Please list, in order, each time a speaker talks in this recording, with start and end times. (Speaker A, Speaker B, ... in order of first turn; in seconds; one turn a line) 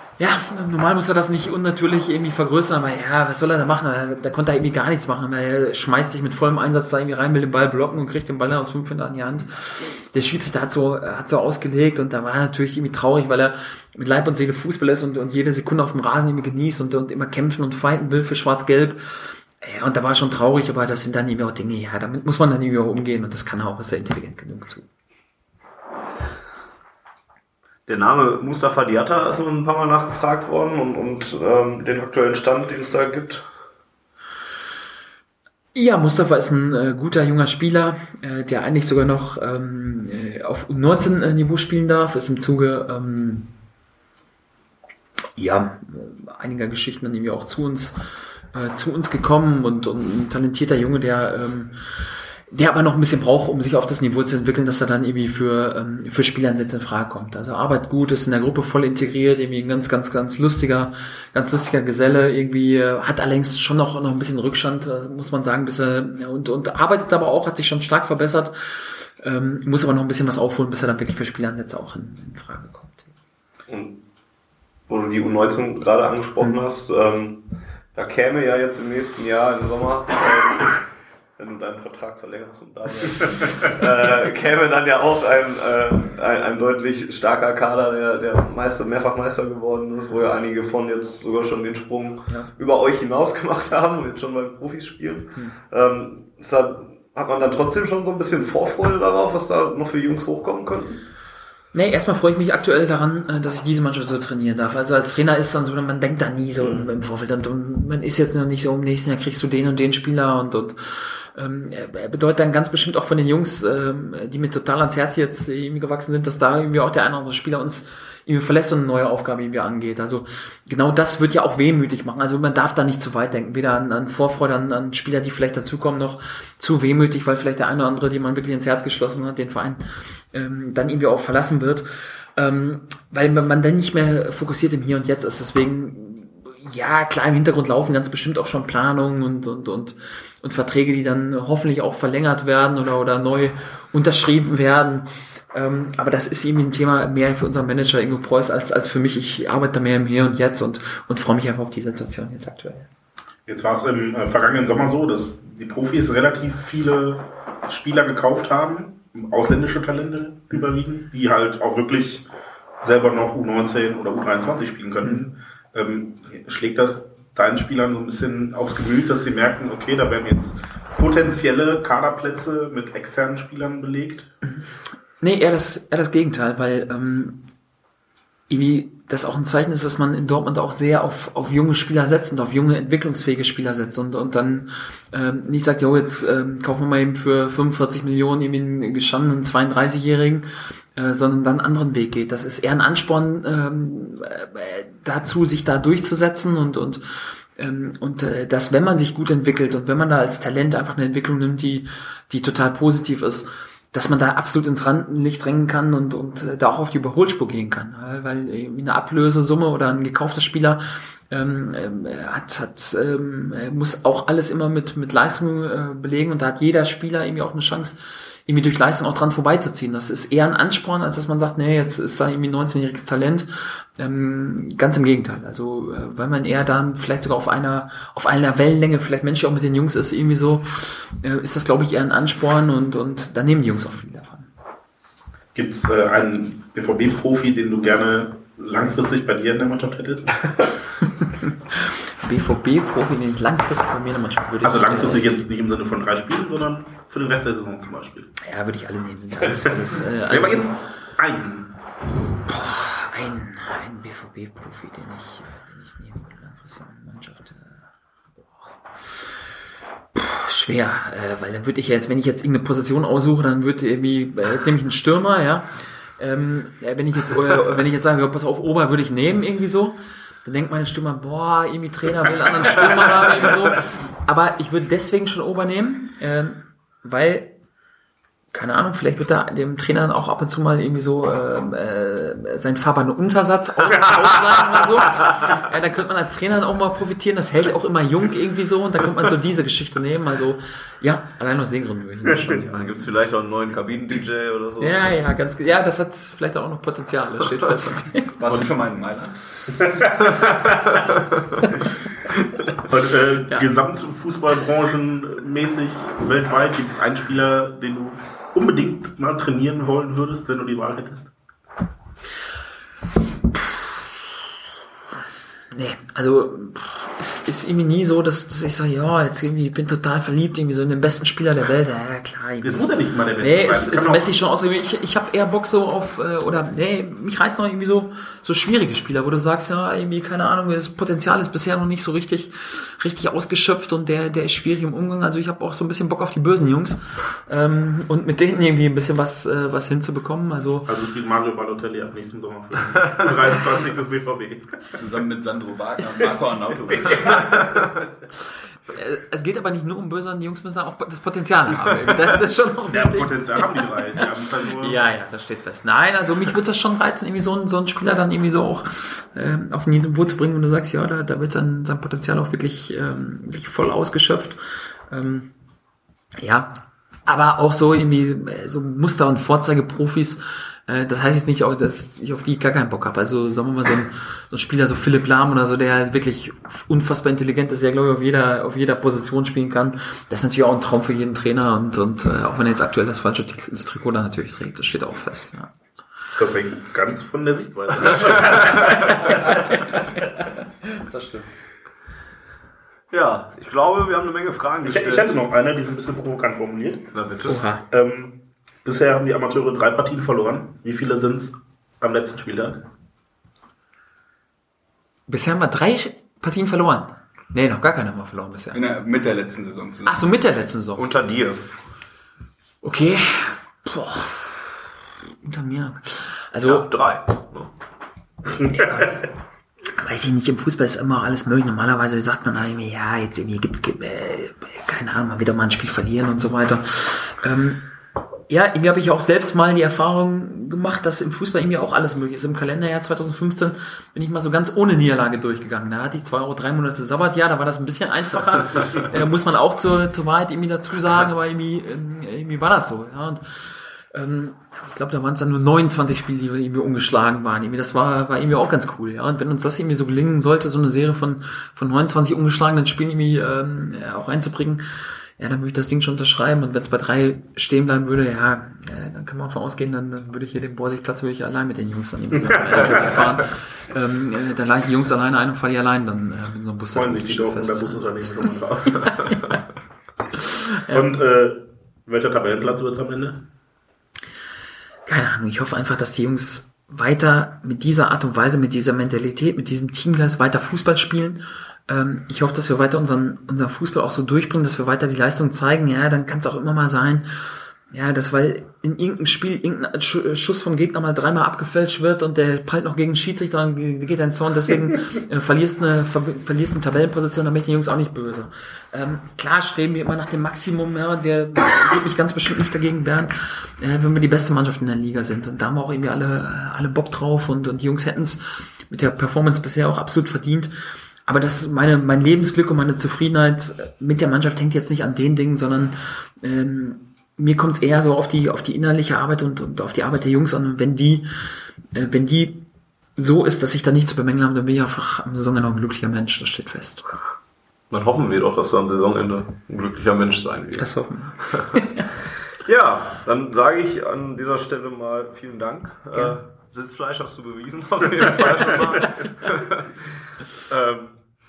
Speaker A: 0.2-24.9
Speaker B: 27.9-33.5
Speaker A: 35.7-43.5
Speaker A: 45.4-48.0
Speaker A: 48.5-73.1
Speaker B: 73.7-74.0
Speaker B: 74.9-77.4
Speaker B: 77.9-80.8
Speaker B: 81.4-101.0
Speaker A: 101.7-152.9
Speaker B: 106.6-106.9
Speaker C: 153.5-162.3
Speaker C: 162.8-174.3
Speaker A: 175.2-177.4
Speaker A: 178.5-234.5
Speaker C: 235.6-240.7
Speaker A: 241.2-245.3
Speaker C: 244.6-248.3
Speaker A: 248.4-250.8
Speaker C: 250.3-251.7
Speaker A: 252.4-257.8
Speaker A: 260.1-277.5
Speaker A: 278.5-292.9
Speaker B: 292.4-295.1
Speaker A: 294.8-298.3
Speaker D: 298.3-299.4
Speaker C: 299.8-300.3
Speaker C: 302.7-311.3
Speaker A: 313.5-314.0
Speaker A: 315.7-340.9
Speaker C: 322.6-324.3
Speaker C: 340.9-344.9
Speaker D: 344.9-347.4
Speaker C: 347.1-347.6
Speaker A: 348.9-365.5
Speaker C: 352.9-355.0
Speaker A: 366.4-385.7
Speaker C: 386.4-389.4
Speaker A: 390.9-391.5
Speaker B: 393.1-395.4
Speaker C: 394.9-397.1
Speaker B: 397.1-397.6
Speaker A: 397.5-397.8
Speaker C: 397.9-402.8
Speaker A: 405.3-408.8
Speaker D: 408.7-410.2
Speaker A: 410.1-411.1
Speaker B: 411.0-411.7
Speaker A: 412.8-414.7
Speaker A: 415.4-416.9
Speaker B: 416.6-417.7
Speaker A: 418.6-419.2
Speaker A: 419.9-427.8
Speaker A: 428.5-454.9
Speaker A: 455.4-468.1
Speaker C: 462.4-463.2
Speaker C: 466.9-469.5
Speaker A: 469.0-469.5
Speaker A: 470.4-471.1
Speaker C: 470.9-473.4
Speaker A: 475.1-510.7
Speaker A: 511.3-521.3
Speaker A: 521.9-522.7
Speaker A: 523.2-527.0
Speaker B: 527.9-530.9
Speaker A: 530.8-532.1
Speaker B: 531.5-531.8
Speaker B: 532.6-540.0
Speaker A: 536.1-536.4
Speaker B: 540.7-541.2